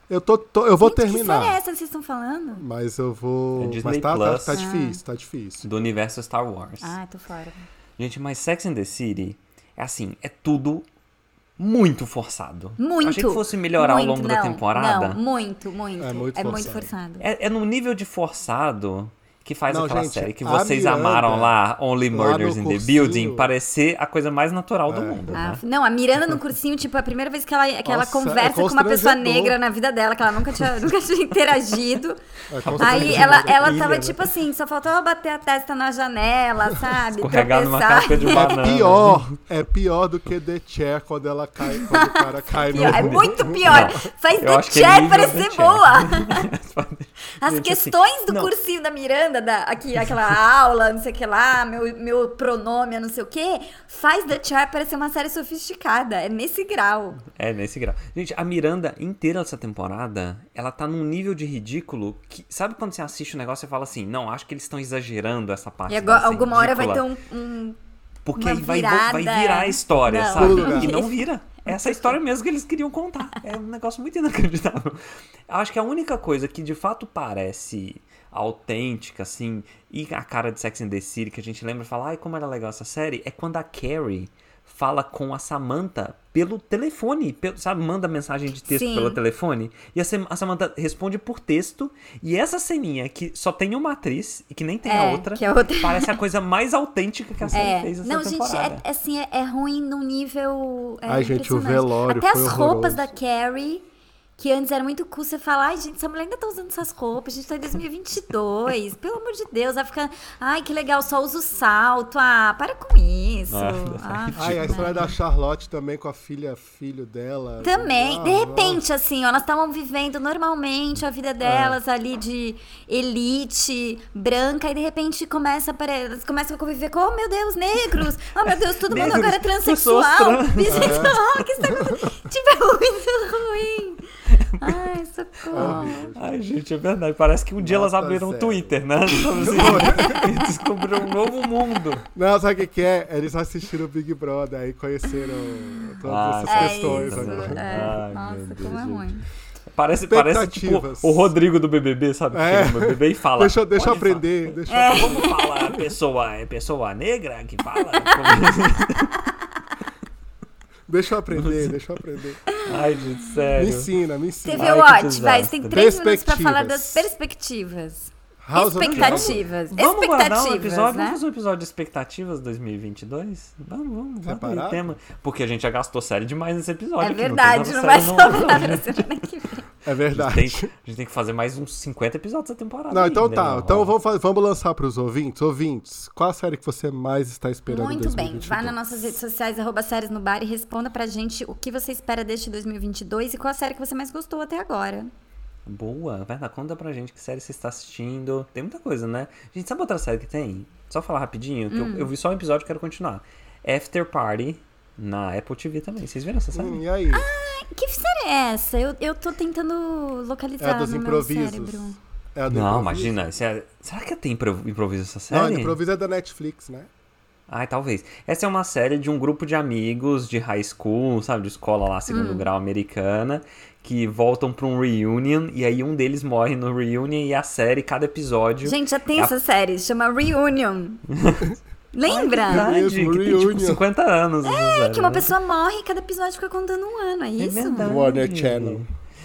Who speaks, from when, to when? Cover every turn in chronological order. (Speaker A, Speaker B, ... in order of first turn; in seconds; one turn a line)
Speaker A: 0.1-1.6
Speaker B: 0.8-2.6
Speaker A: 2.6-5.7
Speaker C: 3.6-4.6
Speaker B: 4.5-5.0
Speaker C: 5.6-7.0
Speaker B: 6.8-7.7
Speaker C: 8.0-10.9
Speaker C: 11.6-15.2
Speaker B: 12.8-17.2
Speaker A: 16.0-16.9
Speaker C: 17.2-25.6
Speaker A: 19.7-21.6
Speaker A: 22.1-23.5
Speaker A: 24.9-25.3
Speaker B: 25.3-32.2
Speaker A: 27.9-29.6
Speaker A: 32.5-34.0
Speaker C: 32.6-34.2
Speaker B: 32.8-38.7
Speaker C: 37.1-39.4
Speaker A: 38.2-44.0
Speaker B: 41.7-46.5
Speaker C: 42.7-48.5
Speaker B: 47.4-57.2
Speaker C: 57.4-67.0
Speaker B: 65.9-67.8
Speaker C: 68.2-98.8
Speaker B: 68.4-71.2
Speaker A: 70.3-71.0
Speaker B: 88.7-89.2
Speaker B: 94.9-96.1
Speaker B: 97.5-103.8
Speaker A: 101.1-103.1
Speaker B: 104.4-115.1
Speaker C: 113.5-115.2
Speaker A: 114.4-118.8
Speaker B: 117.6-136.1
Speaker C: 128.9-131.2
Speaker A: 128.9-129.3
Speaker A: 130.7-132.1
Speaker C: 134.3-134.9
Speaker C: 135.5-142.1
Speaker A: 135.5-136.3
Speaker A: 137.6-140.3
Speaker B: 139.7-140.3
Speaker A: 142.1-148.0
Speaker C: 146.1-149.1
Speaker B: 146.5-149.2
Speaker C: 149.7-159.2
Speaker A: 150.1-151.3
Speaker A: 152.3-155.3
Speaker B: 154.7-155.7
Speaker B: 157.8-158.6
Speaker A: 160.9-162.4
Speaker C: 161.3-161.8
Speaker C: 162.6-163.9
Speaker A: 163.6-165.1
Speaker B: 164.4-171.2
Speaker C: 164.5-165.8
Speaker A: 165.7-167.1
Speaker A: 168.4-169.4
Speaker C: 168.8-179.0
Speaker A: 174.2-174.8
Speaker B: 177.0-179.7
Speaker A: 179.8-180.7
Speaker C: 180.1-183.9
Speaker A: 182.9-188.8
Speaker B: 187.7-195.1
Speaker C: 195.7-206.8
Speaker B: 201.7-202.1
Speaker A: 206.5-207.3
Speaker B: 207.1-212.0
Speaker A: 210.6-213.2
Speaker C: 212.5-215.8
Speaker A: 215.3-216.9
Speaker C: 217.5-229.3
Speaker B: 222.1-222.5
Speaker B: 228.6-231.0
Speaker C: 231.1-235.3
Speaker B: 231.9-232.7
Speaker A: 232.5-233.8
Speaker B: 234.4-237.9
Speaker C: 237.4-238.9
Speaker A: 237.8-238.9